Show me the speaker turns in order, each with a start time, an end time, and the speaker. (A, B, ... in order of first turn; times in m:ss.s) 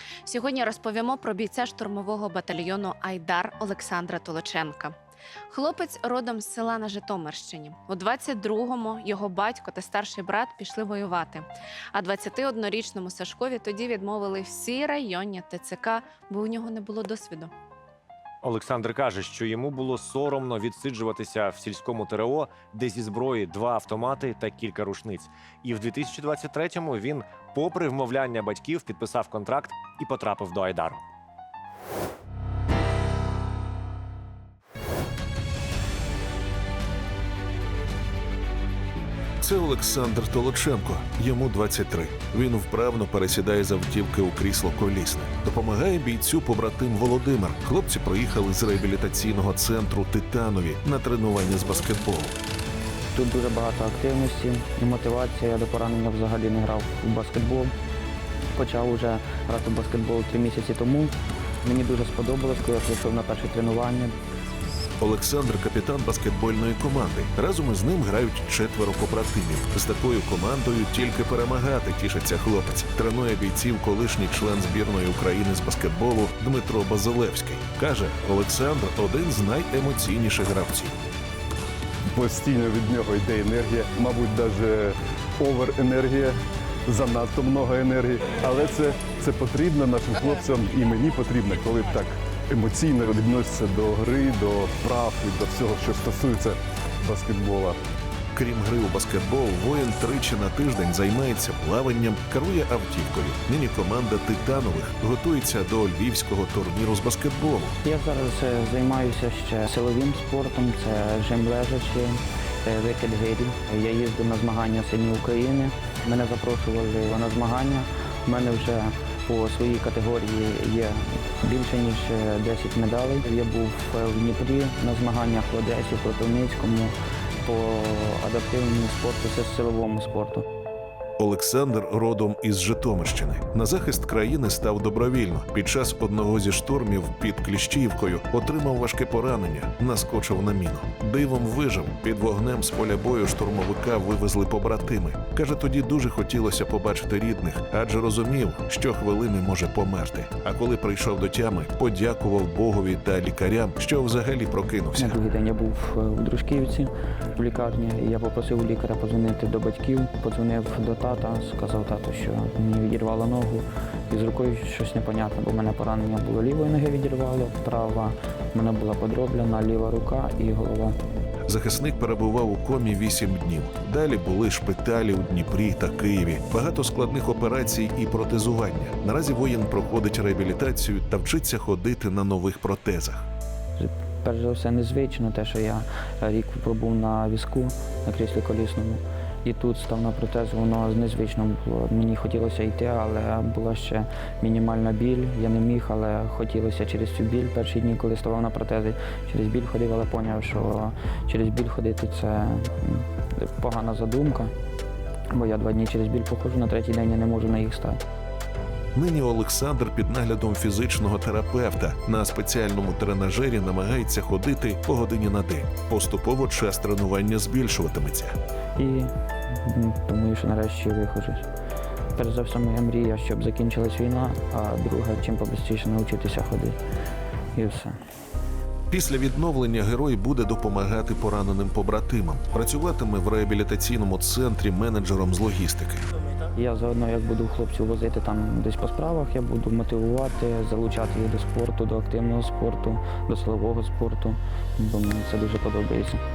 0:00.3-0:04.9 A
0:05.5-0:17.5 A
0:18.4-0:31.0 B
0:39.4-0:52.4 C
0:53.1-0:57.7 D
0:58.6-1:04.1 D
1:05.0-1:21.0 C
1:22.2-1:26.3 E
1:26.9-1:37.7 E
1:38.3-1:47.8 C
1:47.8-2:10.4 D
2:11.2-2:35.2 C
2:35.0-2:51.0 D
2:51.5-3:03.2 C
3:03.8-3:24.5 D
3:25.3-3:28.0 D
3:28.9-3:38.4 C
3:38.8-3:41.4 D
3:42.2-3:46.8 D
3:47.6-3:48.0 D
3:48.9-3:56.0 C
3:56.6-4:06.2 D